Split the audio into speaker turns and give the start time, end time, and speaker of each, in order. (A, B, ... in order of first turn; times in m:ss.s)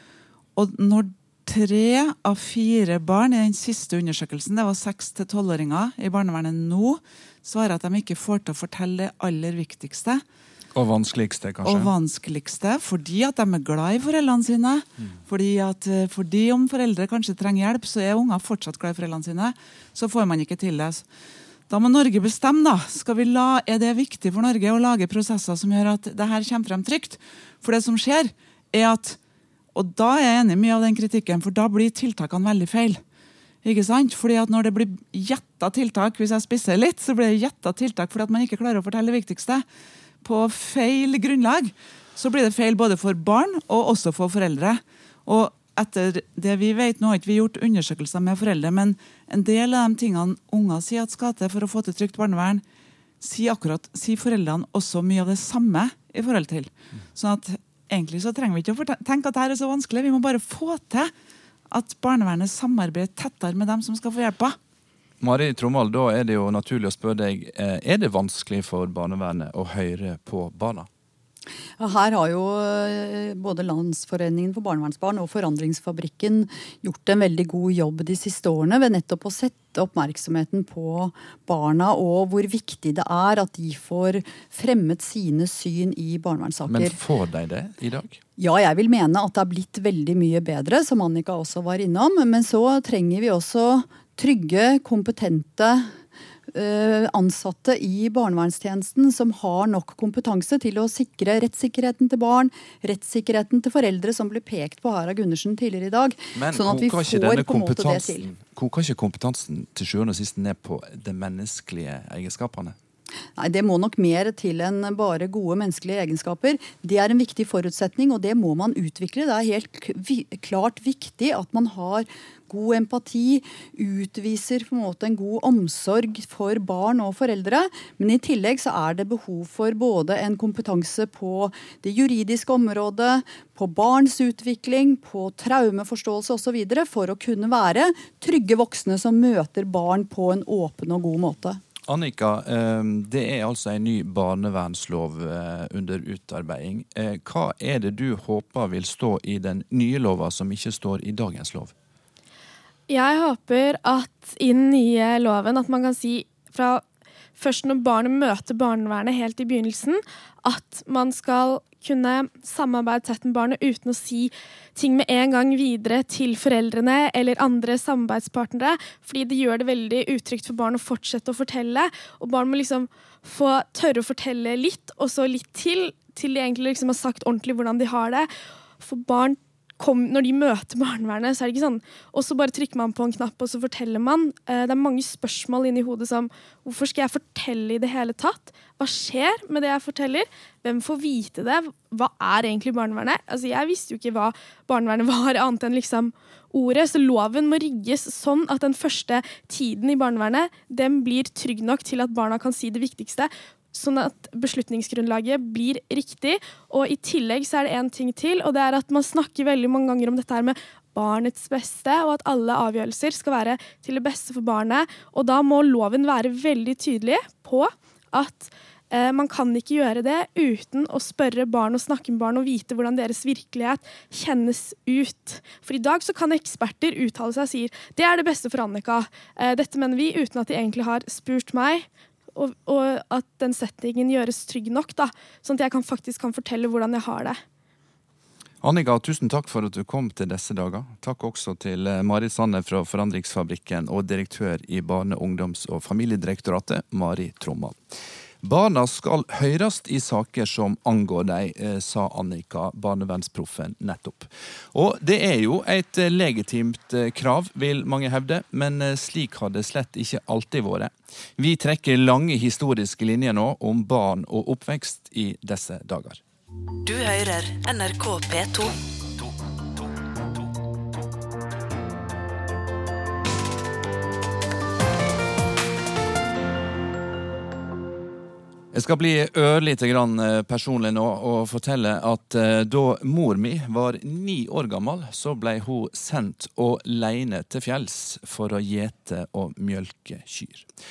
0:00.6-0:10.2 A
0:10.7-0:11.9 B
0:11.6-0:21.0 A
0:21.7-0:29.2 A
0:29.7-0:33.0 A
0:33.6-0:39.6 A
0:40.2-0:52.6 A
0:53.2-1:01.1 A
1:01.7-1:04.6 A
1:05.2-1:10.9 B
1:11.8-1:27.0 C
1:26.7-1:28.2 B
1:28.4-1:35.9 C
1:36.5-1:48.3 C
1:46.3-1:52.8 B
1:53.4-2:21.6 C
2:21.9-2:31.7 B
2:32.9-2:36.8 D
2:37.4-2:58.3 D
2:58.8-3:57.4 D
3:58.6-4:26.2 B
4:26.8-4:29.3 E
4:38.7-4:50.6 B